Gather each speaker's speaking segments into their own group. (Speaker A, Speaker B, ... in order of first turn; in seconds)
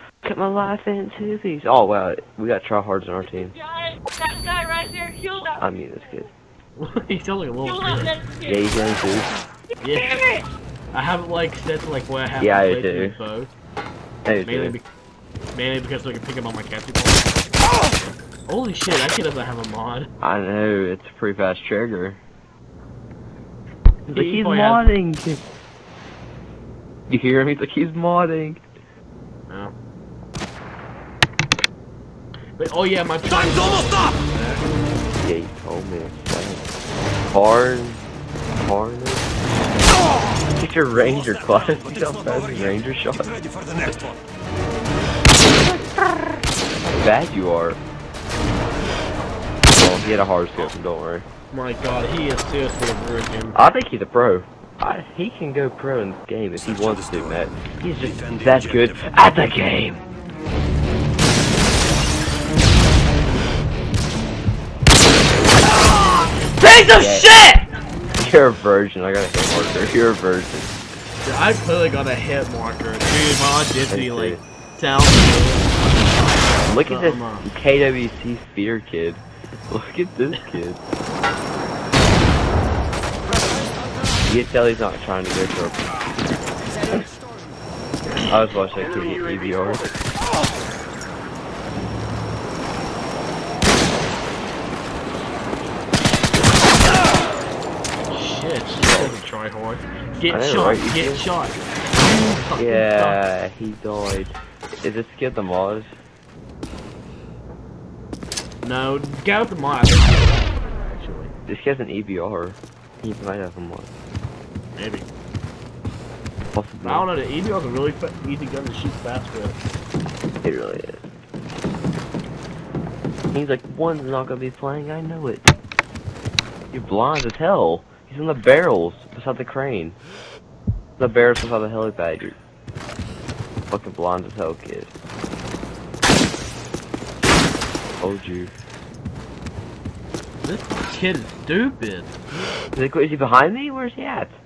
Speaker A: 0.2-3.6, 5.5-6.3, 8.4-9.3, 12.4-13.2, 14.2-14.8, 20.2-22.2, 24.1-25.4, 27.1-28.6, 35.2-36.7, 37.3-38.0, 38.6-39.3, 40.5-43.3, 45.6-46.2, 46.9-47.8, 49.7-51.2, 53.5-60.0, 66.9-67.3, 68.2-70.8, 73.9-74.4, 76.7-80.8, 84.3-86.0, 88.2-89.9, 98.8-99.1, 100.3-101.2, 102.5-105.9, 111.5-113.9, 116.5-117.1, 120.4-121.1, 123.3-125.5, 126.7-129.9, 131.0-132.3, 133.7-134.9, 138.0-138.5, 142.8-144.3
Speaker B: 3.9-5.5, 8.1-8.5
Speaker C: 6.8-8.3, 9.8-10.3, 10.9-13.5, 14.4-14.8, 15.5-17.3, 18.0-20.1, 24.1-24.9, 29.5-29.7, 32.6-34.7, 51.5-53.6, 65.6-67.7, 71.2-77.5, 98.1-103.2, 108.6-111.3, 114.8-115.1, 116.8-119.6, 140.4-142.1
Speaker D: 41.0-44.2, 56.6-57.5, 58.0-59.0